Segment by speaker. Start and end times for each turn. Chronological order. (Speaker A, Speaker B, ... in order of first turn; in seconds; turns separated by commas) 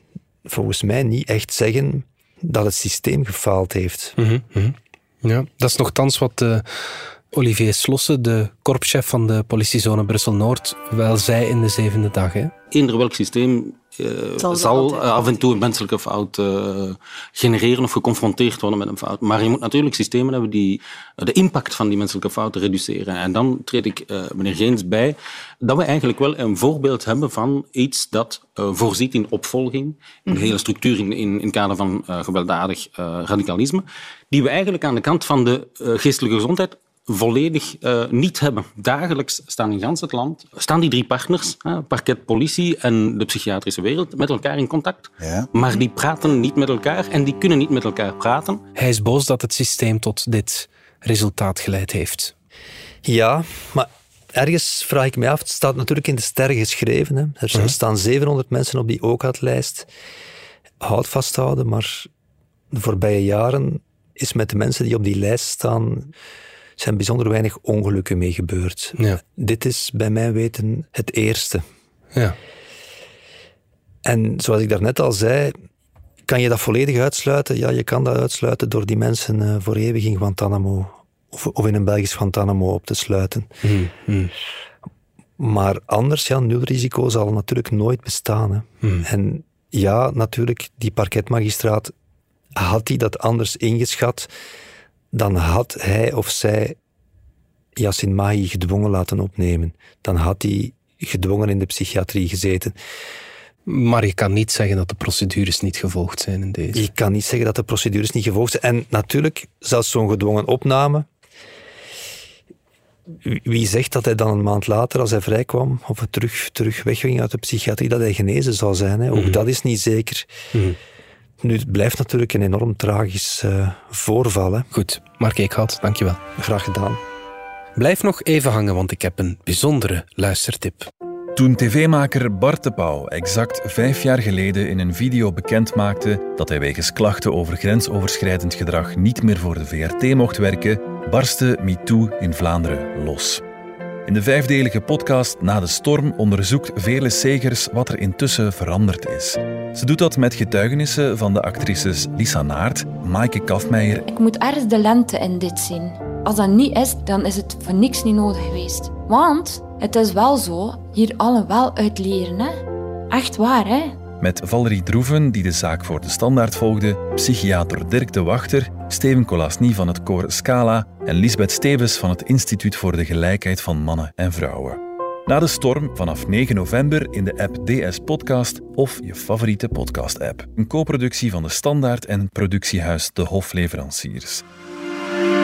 Speaker A: 0.5-4.2, Speaker B: 4.2-12.5, Speaker C: 12.7-48.6, Speaker B: 48.8-52.3, Speaker A: 53.0-59.9, Speaker A: 60.8-62.1, Speaker A: 62.7-66.1, Speaker A: 66.8-71.6, Speaker A: 74.0-75.5, Speaker A: 76.3-83.5, Speaker B: 83.6-84.3, Speaker A: 85.4-91.9, Speaker A: 92.5-94.3, Speaker A: 95.1-96.8, Speaker A: 97.8-102.8, Speaker B: 103.7-106.8, Speaker A: 106.7-111.1, Speaker A: 113.2-120.3, Speaker B: 119.1-119.4, Speaker A: 121.4-124.7, Speaker B: 124.7-126.2, Speaker A: 126.4-127.0, Speaker B: 127.8-130.9, Speaker D: 131.4-143.4, Speaker D: 144.1-154.1, Speaker E: 154.1-164.0, Speaker D: 164.2-184.4